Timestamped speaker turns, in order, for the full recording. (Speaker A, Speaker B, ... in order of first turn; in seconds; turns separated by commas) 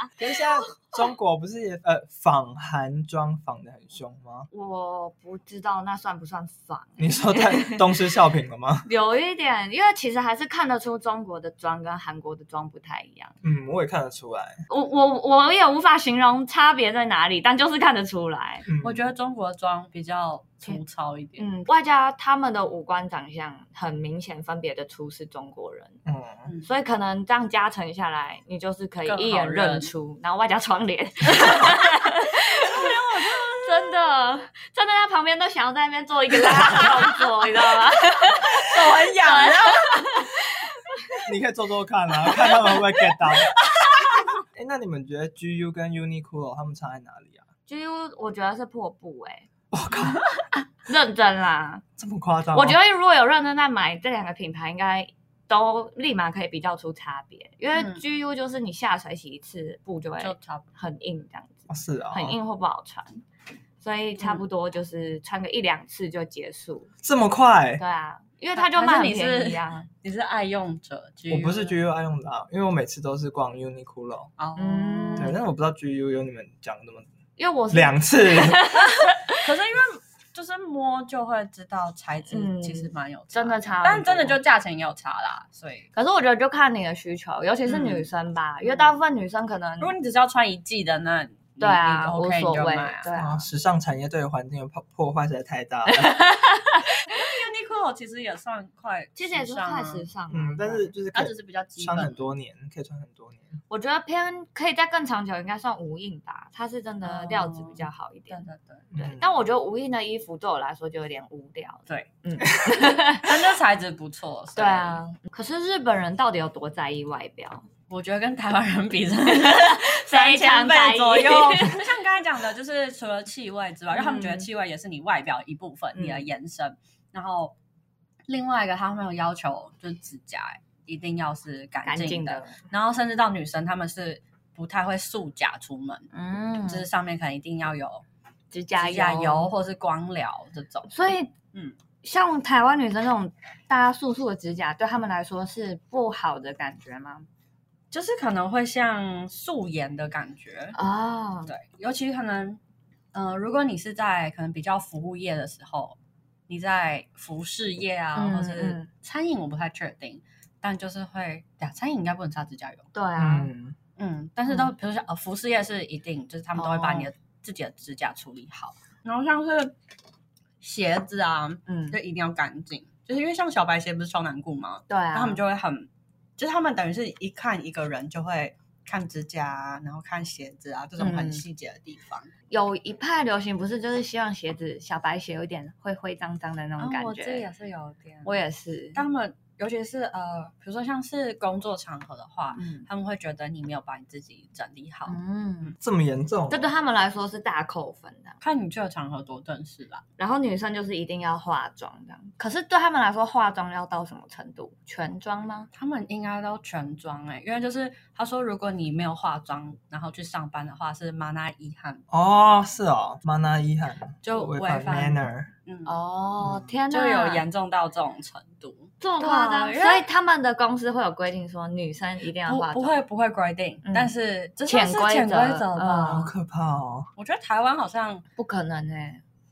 Speaker A: 0.2-4.5, Speaker B: 4.5-8.1, Speaker A: 7.0-8.9, Speaker B: 8.8-13.4, Speaker A: 13.4-14.6, Speaker B: 14.7-18.7, Speaker A: 18.7-19.1, Speaker C: 18.8-21.4, Speaker B: 21.4-26.0, Speaker A: 26.1-26.5, Speaker B: 26.6-41.2, Speaker C: 29.1-29.9, Speaker C: 31.3-34.0, Speaker C: 36.5-37.3, Speaker C: 38.5-40.2, Speaker A: 41.2-43.5, Speaker C: 42.4-44.2, Speaker A: 44.5-47.5, Speaker B: 47.7-49.5, Speaker A: 49.7-50.5, Speaker B: 50.9-51.8, Speaker A: 52.0-52.8, Speaker B: 52.5-63.2, Speaker C: 57.7-58.0, Speaker C: 60.2-60.6, Speaker A: 61.7-62.4, Speaker B: 63.8-66.9, Speaker A: 67.0-67.8, Speaker B: 67.8-69.9, Speaker C: 68.6-71.8, Speaker A: 71.3-74.3, Speaker C: 74.4-75.4, Speaker B: 74.6-75.4, Speaker A: 75.2-77.1, Speaker B: 77.4-79.5, Speaker A: 77.7-78.8, Speaker C: 79.3-85.9, Speaker B: 82.3-84.4, Speaker B: 85.9-89.9, Speaker C: 87.7-88.1, Speaker C: 88.6-88.9, Speaker C: 89.8-93.1, Speaker B: 91.6-93.5, Speaker A: 93.1-96.2, Speaker B: 95.9-97.2, Speaker C: 97.1-100.1, Speaker B: 99.2-100.9, Speaker A: 100.3-103.5, Speaker C: 101.1-102.3, Speaker B: 103.7-108.4, Speaker C: 107.0-108.9, Speaker A: 108.9-109.3, Speaker B: 109.0-113.4, Speaker C: 113.1-115.0, Speaker B: 114.6-117.7, Speaker C: 117.9-127.5, Speaker B: 119.3-121.8, Speaker B: 123.9-124.5, Speaker B: 125.9-126.3, Speaker C: 128.3-136.1, Speaker B: 131.8-132.6, Speaker B: 136.1-136.8, Speaker C: 136.7-138.0, Speaker B: 138.5-139.5, Speaker C: 138.8-140.9, Speaker B: 140.9-141.3, Speaker B: 142.0-147.3, Speaker C: 147.9-150.8, Speaker B: 150.8-151.5, Speaker C: 151.5-152.6, Speaker C: 153.1-156.0, Speaker C: 156.5-162.9, Speaker B: 158.2-158.9, Speaker B: 162.9-163.5, Speaker A: 163.2-163.8, Speaker C: 164.0-169.8, Speaker B: 164.5-164.7, Speaker B: 166.6-167.1, Speaker C: 170.6-182.3, Speaker B: 171.7-172.0, Speaker B: 174.9-175.4, Speaker B: 181.0-181.4, Speaker B: 182.5-187.5, Speaker C: 186.8-188.4, Speaker B: 188.2-189.0, Speaker C: 188.9-195.2, Speaker B: 192.6-192.9, Speaker B: 195.1-195.8, Speaker A: 195.8-196.7, Speaker B: 196.5-198.4, Speaker C: 198.4-200.0, Speaker B: 200.2-205.7, Speaker C: 205.7-212.0, Speaker A: 212.1-215.5, Speaker C: 214.2-215.9, Speaker B: 215.9-217.4, Speaker A: 216.4-216.7, Speaker C: 216.9-220.1, Speaker B: 219.0-223.0, Speaker C: 222.5-226.3, Speaker B: 223.8-224.1, Speaker B: 224.7-226.3, Speaker A: 226.1-227.1, Speaker C: 227.2-228.2, Speaker B: 228.4-229.2